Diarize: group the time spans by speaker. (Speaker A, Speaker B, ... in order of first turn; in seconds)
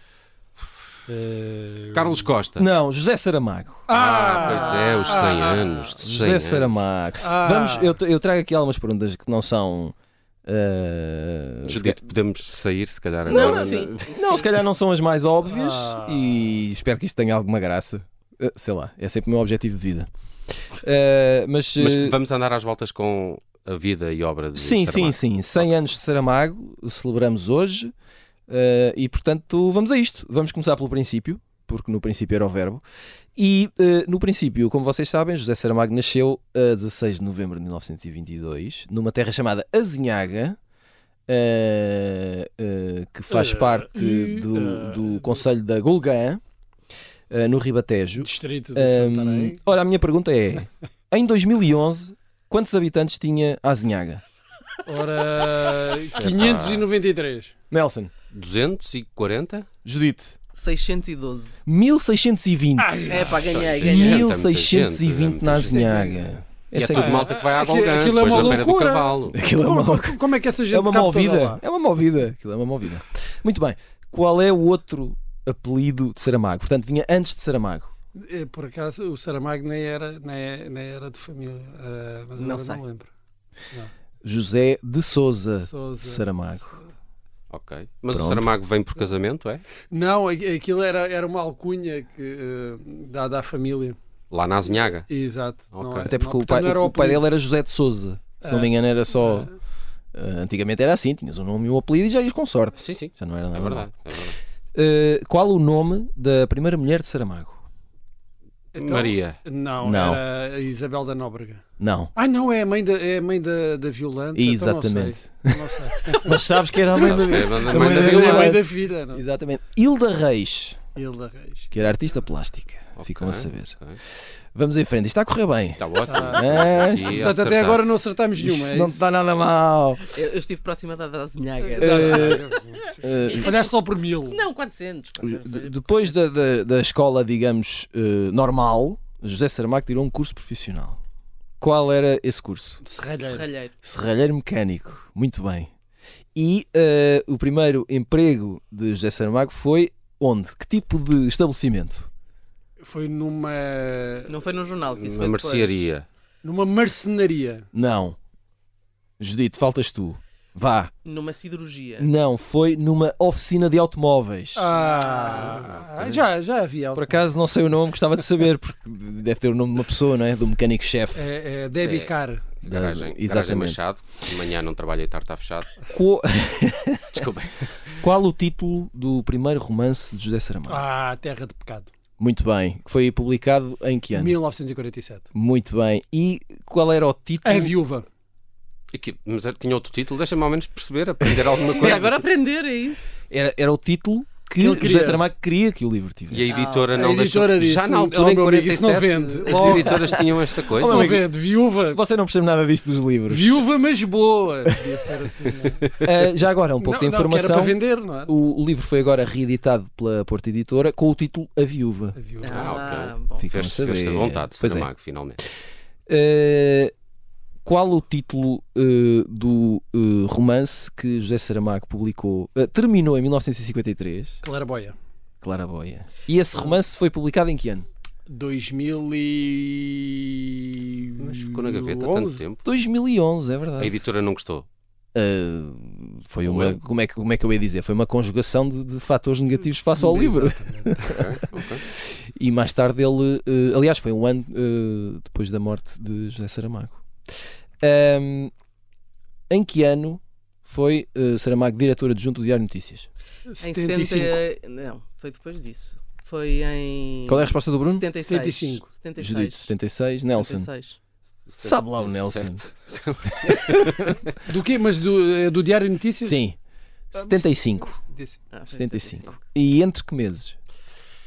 Speaker A: 1.1-2.2, 3.9-5.8, 7.2-8.0, 15.5-16.4, 43.3-45.4, 48.2-49.6, 54.9-57.5, 62.8-63.4, 65.5-66.4, 66.9-71.6, 78.1-83.1, 85.6-86.8, 89.9-94.0, 95.1-97.3, 98.4-99.5, 108.7-111.6, 112.1-116.4, 117.0-119.2, 120.9-121.8, 126.1-129.0, 131.8-134.4, 142.8-143.5, 152.8-154.3, 156.4-157.7, 164.5-167.3, 171.1-172.4, 180.7-181.9, 184.1-185.2, 187.4-188.1, 194.6-195.2, 196.9-200.0, 200.7-202.0, 203.3-205.9, 206.8-208.3, 212.1-212.9, 224.4-224.9, 228.3-232.4, 239.9-241.2, 253.5-254.4, 258.2-258.9, 264.4-266.4, 267.1-268.4
Speaker B: 1.9-2.7, 3.9-6.8, 11.6-14.1, 21.8-25.7, 56.1-56.9, 58.3-59.7, 63.3-65.9, 66.7-69.4, 87.5-89.6, 94.3-95.1, 95.7-96.1, 102.8-104.4, 108.8-109.4, 117.0-118.5, 123.0-124.0, 125.8-127.9, 154.9-156.1, 165.7-166.1, 171.8-175.7, 177.1-177.7, 188.9-192.2, 196.3-201.1, 212.4-215.4, 231.2-232.6, 233.8-234.7, 236.4-236.8, 241.1-241.8, 261.5-264.3
Speaker C: 2.6-3.9, 6.0-12.0, 13.3-20.1, 20.8-22.1, 24.5-27.9, 28.5-32.8, 33.4-40.6, 41.3-46.4, 47.3-54.2, 57.7-58.1, 59.8-60.4, 61.6-67.2, 69.3-77.9, 84.2-86.8, 88.1-88.5, 96.0-99.5, 100.1-103.9, 104.7-107.6, 109.8-110.2, 111.8-112.1, 114.3-120.8, 121.7-123.8, 124.5-127.3, 128.3-130.1, 131.8-132.4, 133.0-133.5, 135.2-141.0, 141.6-142.8, 143.8-145.7, 146.3-152.1, 157.7-158.2, 159.2-160.9, 162.0-164.7, 166.9-171.2, 172.6-173.8, 175.9-177.2, 178.0-180.8, 182.2-184.4, 185.3-187.8, 193.3-196.6, 199.5-199.9, 200.7-201.3, 201.9-203.6, 206.0-212.2, 213.4-214.9, 216.1-216.9, 217.6-224.4, 225.4-227.8, 232.6-234.0, 235.1-241.3, 242.1-247.0, 247.8-248.5, 249.5-253.1, 257.2-258.1, 259.2-260.7, 261.6-262.6, 266.2-266.6, 267.1-267.9, 268.7-270.5
Speaker D: 4.4-5.7, 13.2-14.4, 60.5-61.6, 63.1-64.2, 82.4-82.8, 130.1-132.4, 133.3-133.6, 134.2-136.1, 143.2-143.7, 154.3-155.9, 161.0-162.1, 164.8-165.7, 191.6-193.1, 196.5-197.0, 199.6-200.1, 212.4-213.4, 253.6-259.7, 260.2-261.0, 268.5-269.4